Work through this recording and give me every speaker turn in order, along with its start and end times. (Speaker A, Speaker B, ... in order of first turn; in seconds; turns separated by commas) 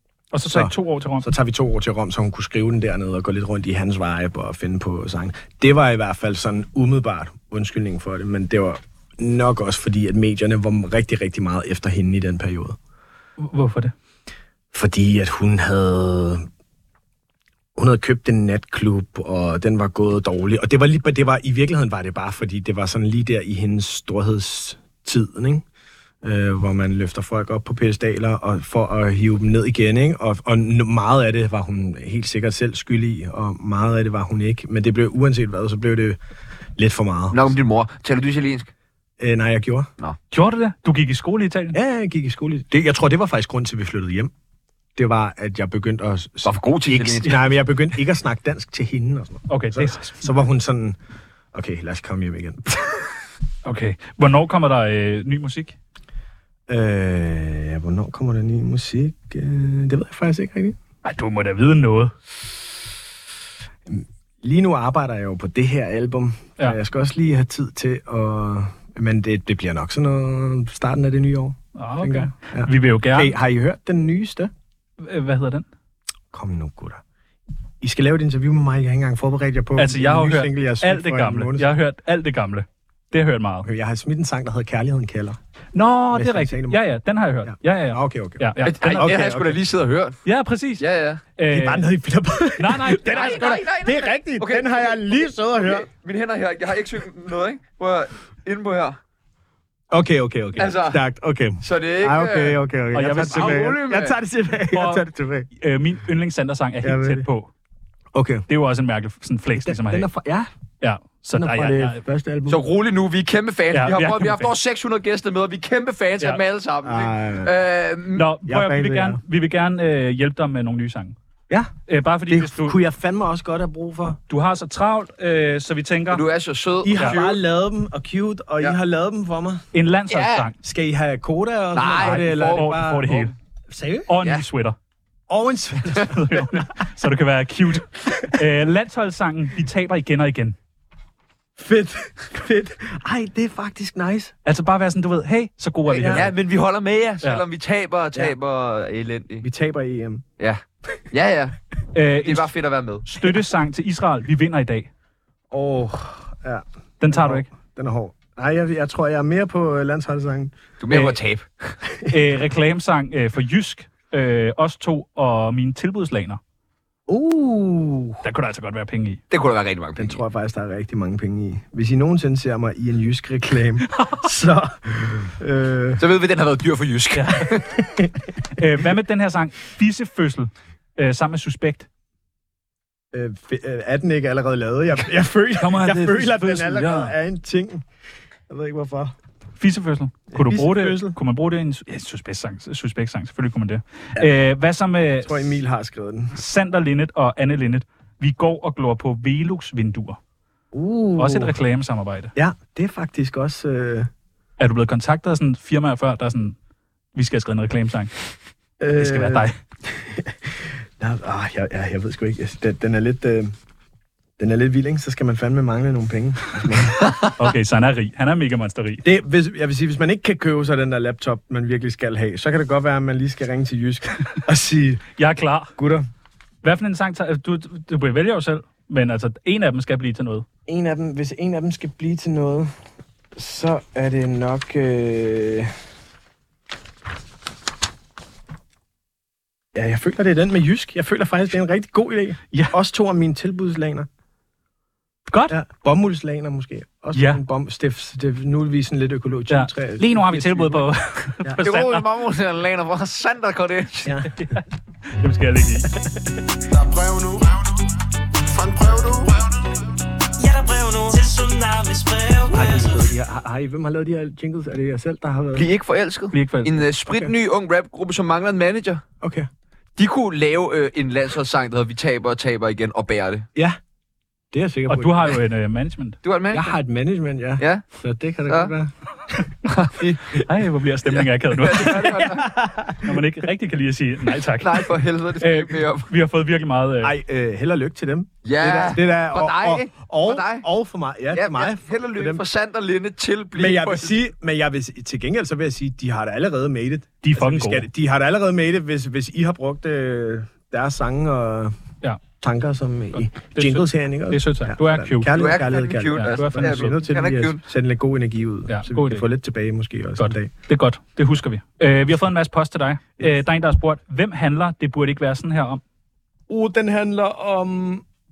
Speaker A: 0.3-1.3, Speaker B: 0.5-12.8, Speaker A: 13.4-13.9, Speaker B: 14.7-16.5, Speaker B: 17.8-25.6, Speaker B: 26.2-36.2, Speaker B: 36.8-37.5, Speaker C: 37.3-38.7, Speaker B: 39.2-39.9, Speaker A: 40.3-41.8, Speaker B: 41.7-44.3, Speaker B: 45.0-51.0, Speaker C: 46.4-47.5, Speaker A: 49.5-50.3, Speaker B: 51.5-53.0, Speaker A: 53.6-55.7, Speaker B: 56.7-60.8, Speaker A: 61.0-62.1, Speaker B: 63.9-74.5, Speaker A: 71.8-73.3, Speaker A: 75.0-75.7, Speaker B: 76.3-77.0, Speaker B: 77.8-81.8, Speaker A: 79.8-83.7, Speaker B: 83.6-85.4, Speaker A: 85.7-89.1, Speaker B: 86.1-86.8, Speaker B: 87.4-89.6, Speaker C: 88.6-90.2, Speaker A: 90.2-90.8, Speaker C: 90.8-91.2, Speaker A: 91.4-91.9, Speaker B: 91.5-95.9, Speaker A: 92.6-93.5, Speaker C: 93.1-99.0, Speaker B: 99.9-105.5, Speaker C: 100.6-101.0, Speaker C: 101.6-102.6, Speaker A: 102.9-103.7, Speaker C: 103.2-104.1, Speaker A: 104.7-107.5, Speaker B: 106.8-107.3, Speaker B: 108.1-108.5, Speaker A: 108.5-110.1, Speaker B: 109.5-110.5, Speaker A: 110.8-112.0, Speaker B: 111.3-112.6, Speaker C: 112.5-118.3, Speaker A: 113.7-114.5, Speaker B: 116.8-117.5, Speaker A: 118.1-121.2, Speaker B: 118.4-119.2, Speaker A: 121.9-122.8, Speaker B: 122.3-124.2, Speaker A: 124.3-126.2, Speaker C: 126.1-127.4, Speaker B: 126.8-129.6, Speaker A: 129.7-130.6, Speaker C: 130.1-130.5, Speaker B: 130.6-134.1, Speaker C: 131.7-133.3, Speaker A: 131.9-133.3, Speaker A: 134.1-134.8, Speaker B: 135.3-136.7, Speaker A: 136.0-140.6, Speaker B: 141.6-144.3, Speaker A: 144.4-146.3, Speaker B: 145.9-146.3, Speaker C: 146.1-149.4, Speaker B: 149.4-150.2, Speaker C: 150.4-151.6, Speaker A: 151.9-152.5, Speaker C: 152.2-153.1, Speaker A: 153.0-154.9, Speaker B: 155.5-161.1, Speaker A: 157.0-157.5, Speaker C: 160.8-161.8, Speaker B: 161.9-162.2, Speaker A: 162.1-166.4, Speaker B: 167.1-168.2, Speaker A: 168.2-169.2, Speaker C: 169.3-170.2, Speaker B: 169.9-176.0, Speaker A: 173.9-174.2, Speaker C: 176.0-177.7, Speaker A: 177.1-177.5, Speaker B: 177.7-178.1, Speaker A: 178.5-181.9, Speaker B: 183.1-187.8, Speaker A: 185.6-187.1, Speaker B: 188.5-189.2, Speaker A: 189.6-195.5, Speaker B: 190.3-191.2, Speaker B: 195.2-196.4, Speaker A: 196.3-200.2, Speaker B: 200.7-201.5, Speaker A: 201.2-202.3, Speaker B: 202.3-204.1, Speaker A: 204.6-206.6, Speaker A: 207.1-208.1, Speaker B: 208.8-213.5, Speaker A: 208.9-209.6, Speaker B: 214.4-217.2, Speaker A: 217.2-219.0, Speaker B: 219.0-225.0, Speaker A: 225.2-225.7, Speaker B: 225.8-226.1, Speaker A: 226.6-230.4, Speaker B: 230.7-232.7, Speaker B: 233.3-235.7, Speaker B: 239.7-244.1, Speaker A: 245.3-245.6, Speaker B: 245.5-250.9, Speaker A: 247.1-247.4, Speaker A: 249.5-252.0, Speaker C: 251.6-254.1, Speaker B: 254.0-254.6, Speaker A: 254.3-255.9, Speaker B: 255.9-256.2, Speaker D: 256.7-257.6, Speaker D: 258.5-259.5, Speaker E: 260.4-263.0, Speaker B: 262.5-265.7, Speaker C: 265.5-269.0, Speaker A: 266.3-266.8, Speaker B: 267.1-267.3, Speaker B: 269.2-269.5, Speaker C: 270.0-273.4, Speaker B: 274.5-275.4, Speaker A: 274.9-276.2, Speaker C: 276.2-276.8, Speaker B: 276.5-278.9, Speaker C: 277.6-277.8, Speaker C: 278.5-278.7, Speaker C: 279.6-280.4, Speaker A: 280.4-282.4, Speaker C: 281.1-282.5, Speaker B: 282.3-283.2, Speaker A: 283.0-287.1, Speaker C: 284.6-286.1, Speaker B: 287.0-292.4, Speaker C: 288.4-290.6, Speaker C: 291.3-294.2, Speaker B: 293.5-301.7, Speaker A: 297.2-297.9, Speaker B: 302.4-310.5, Speaker A: 303.1-305.4, Speaker C: 305.3-307.6, Speaker A: 306.1-307.0, Speaker A: 308.7-309.2, Speaker A: 310.2-315.8, Speaker B: 316.5-318.0